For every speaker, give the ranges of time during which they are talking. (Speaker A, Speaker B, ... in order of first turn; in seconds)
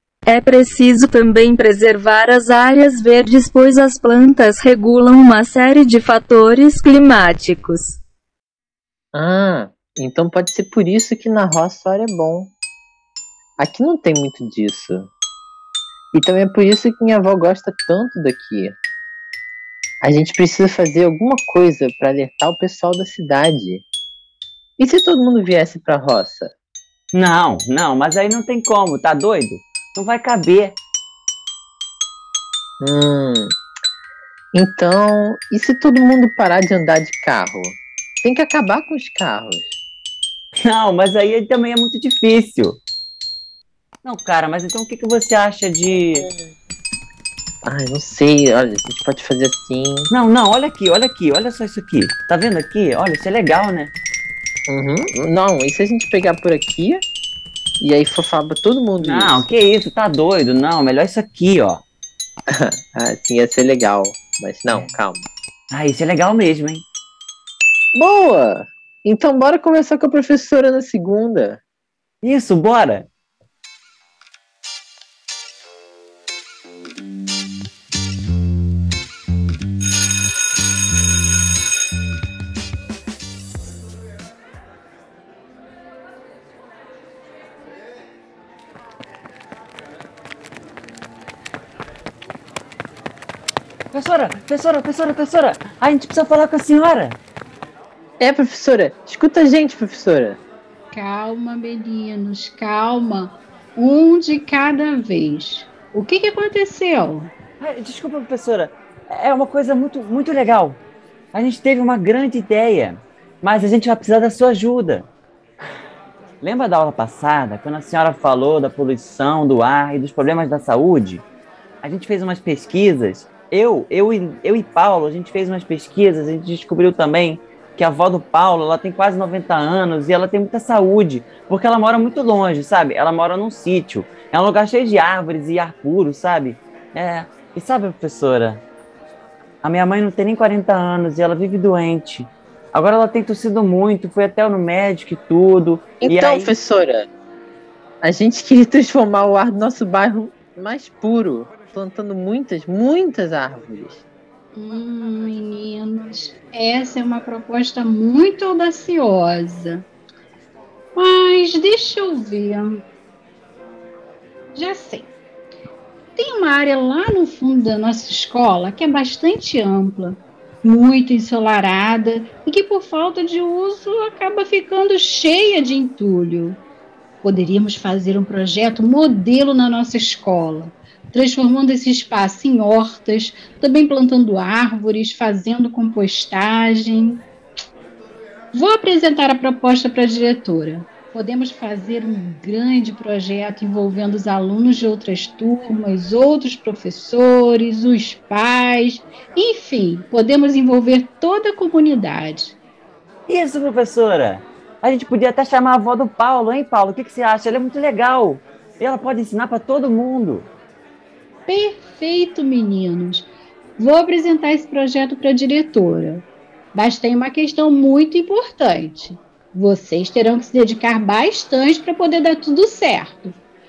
Speaker A: 0.3-8.0
Speaker B: 9.1-12.5, 13.6-15.1, 16.1-18.8, 20.0-23.8, 24.8-26.5, 32.8-33.5, 34.5-39.8, 46.1-46.5, 47.7-50.1, 54.7-57.0, 57.8-59.5, 62.5-65.3, 68.0-71.6, 98.2-100.4, 146.0-147.1, 148.0-154.0
Speaker C: 27.1-30.8, 40.6-42.8, 44.0-46.3, 50.1-53.9, 59.0-61.8, 65.7-66.8, 72.2-73.1, 93.9-97.2, 107.6-110.8, 111.3-115.1, 116.4-121.2, 121.8-138.6, 139.6-146.5, 203.3-210.5
Speaker D: 100.9-107.3, 154.5-159.8, 160.9-162.8, 164.5-165.1, 166.2-176.6, 177.2-187.2, 188.5-202.6, 211.5-223.4